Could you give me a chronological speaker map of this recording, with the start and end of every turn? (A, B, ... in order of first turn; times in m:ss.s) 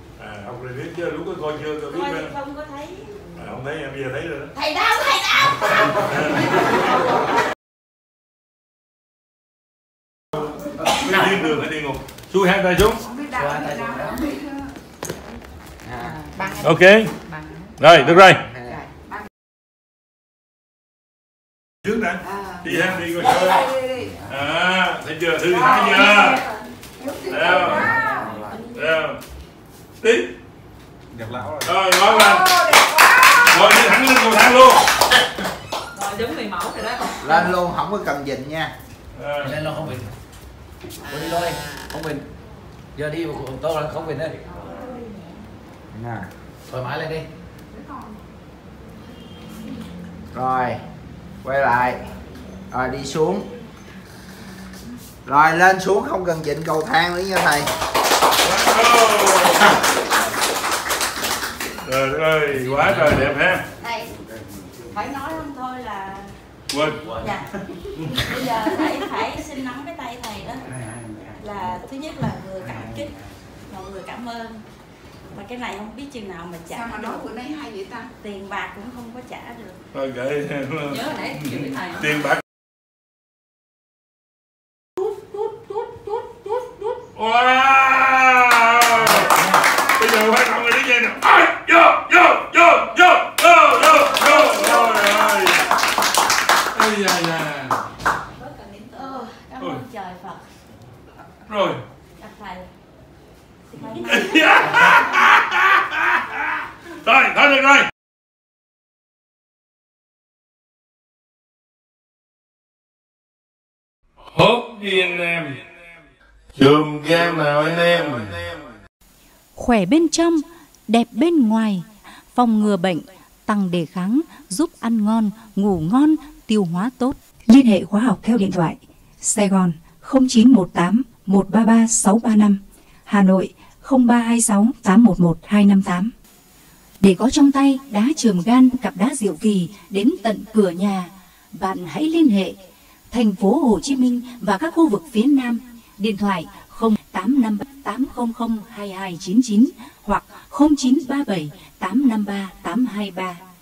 0:00.2-0:02.3 A
0:01.9-0:03.2 B
0:03.3-0:04.5 A
0:04.6-0:05.9 B
0:05.9-0:06.6 A
0:10.8-0:13.0 A
0:13.1-0:14.6 C
0:13.4-0:14.2 D
0:15.9-0:16.1 E
0:16.6-0:17.1 A
0:17.8-0:18.4 A
0:18.3-0:18.8 E
0:21.9-0:23.7 A
0:23.6-0:24.1 C
0:24.2-0:26.5 A
0:26.2-0:26.5 B
0:27.0-0:28.2 C
0:27.3-0:28.0 A
0:27.8-0:28.8 B
0:27.8-0:28.3 E
0:28.7-0:29.2 A
0:30.0-0:30.3 A
0:31.1-0:31.6 E
0:31.6-0:34.8 A
0:32.0-0:33.6 C
0:36.0-0:37.1 F
0:37.2-0:38.7 E
0:39.1-0:39.6 A
0:39.4-0:40.1 D
0:41.1-0:42.3 D
0:43.0-0:44.4 D
0:44.5-0:45.4 B
0:45.9-0:46.3 E
0:46.7-0:47.3 D
0:50.3-0:50.8 E
0:51.4-0:52.0 E
0:52.7-0:53.4 E
0:55.3-0:57.7 E
0:58.4-0:59.7 A
1:01.8-1:03.6 A
1:03.8-1:04.1 B
1:04.9-1:06.4 B
1:06.7-1:07.0 A
1:07.1-1:07.5 B
1:08.0-1:10.7 B
1:11.4-1:13.1 B
1:13.7-1:14.6 B
1:15.3-1:17.3 B
1:16.7-1:18.1 C
1:18.2-1:19.8 B
1:19.9-1:22.4 A
1:20.9-1:22.0 F
1:25.3-1:35.7 A
1:33.9-1:35.4 B
1:36.7-1:37.8 A
1:38.6-1:40.4 B
1:41.4-1:41.8 A
1:42.2-1:42.7 B
1:43.7-1:44.7 B
1:44.0-1:47.9 A
1:54.3-1:55.6 A
1:56.6-1:58.5 A
1:59.6-2:16.1 G
2:17.0-2:22.6 G
2:23.1-2:33.4 G